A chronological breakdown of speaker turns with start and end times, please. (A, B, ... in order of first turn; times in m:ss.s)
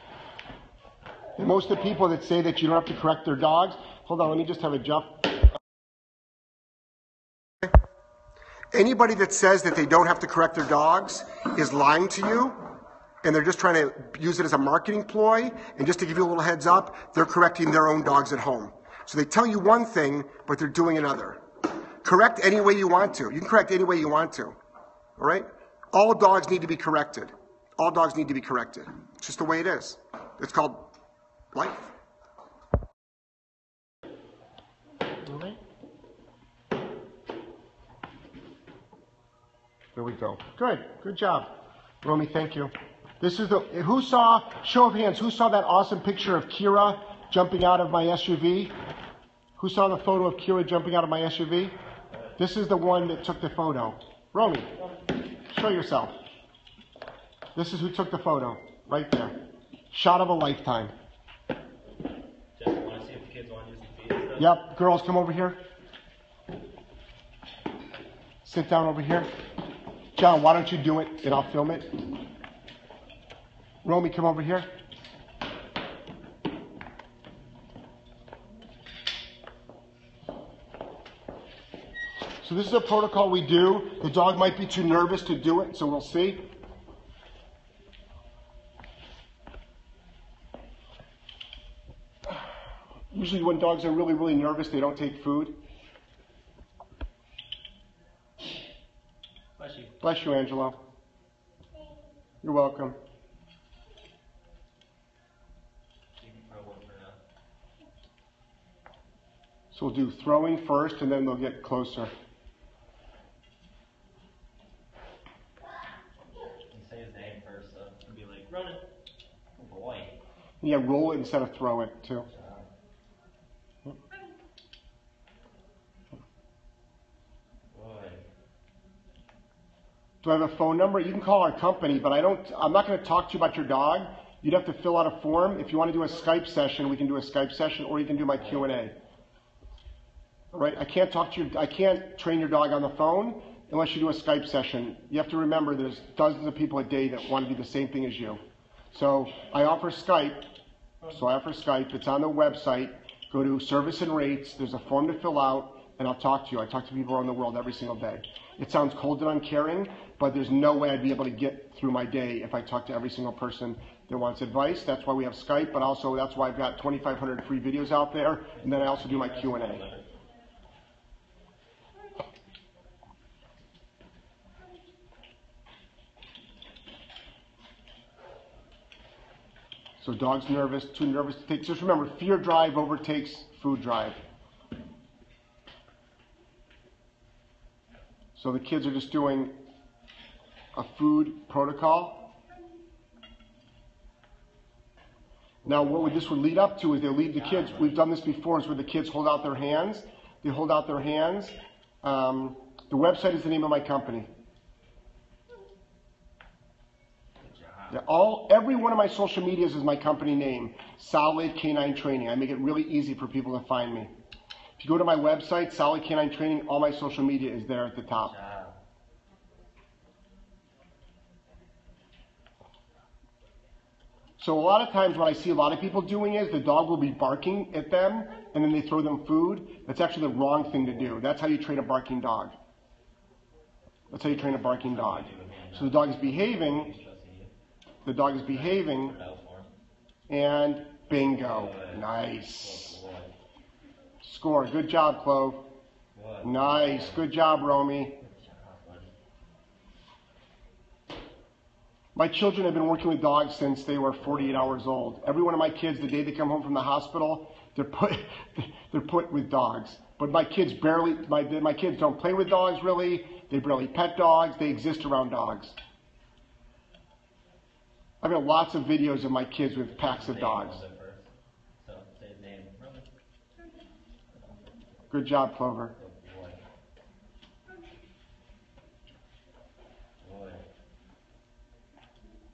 0:01.4-0:05.5 A
0:08.7-0:21.4 A
0:22.0-0:24.6 A
0:25.2-0:30.9 A
0:31.5-0:31.9 A
0:35.2-0:35.6 A
0:40.0-0:41.5 A
0:42.0-0:48.7 A
0:49.6-0:51.7 A
0:52.4-0:54.7 A
0:55.5-0:56.1 A
0:57.6-0:59.4 A
0:59.9-1:00.9 A
1:02.6-1:04.5 B
1:04.4-1:05.6 A
1:08.4-1:09.3 A
1:10.2-1:12.0 A
1:13.8-1:14.7 A
1:22.4-1:26.5 A
1:33.1-1:35.6 A
1:39.6-1:40.0 B
1:40.0-1:40.8 A
1:42.4-1:43.0 A
1:46.2-1:47.2 B
1:49.7-1:52.1 A
1:56.7-1:58.8 B
1:59.6-2:00.2 B
2:00.6-2:02.3 A
2:02.3-2:02.7 B
2:07.7-2:08.2 B
2:10.2-2:18.9 A
2:20.5-2:28.4 A
2:28.9-2:30.5 A
2:31.0-2:49.8 A
2:48.6-2:50.1 B
3:00.0-3:04.2 A
3:08.4-3:09.6 A
3:10.7-3:12.2 A
3:15.6-3:24.3 A
3:17.4-3:18.0 B
3:27.4-3:28.0 B
3:27.9-3:34.1 A
3:34.8-3:38.3 A
3:38.1-3:38.8 B
3:44.4-3:52.5 A
3:54.1-3:56.9 A
3:54.2-3:57.5 B
3:58.0-3:59.2 A
3:58.3-3:59.8 B
4:00.3-4:03.0 A
4:01.2-4:03.3 B
4:04.2-4:05.6 A
4:06.1-4:07.3 B
4:06.4-4:08.2 A
4:08.2-4:09.1 B
4:12.1-4:25.8 A
4:28.2-4:30.8 A
4:29.9-4:31.3 B
4:31.8-4:33.1 B
4:35.1-4:35.9 A
4:36.0-4:36.6 B
4:40.2-4:40.7 B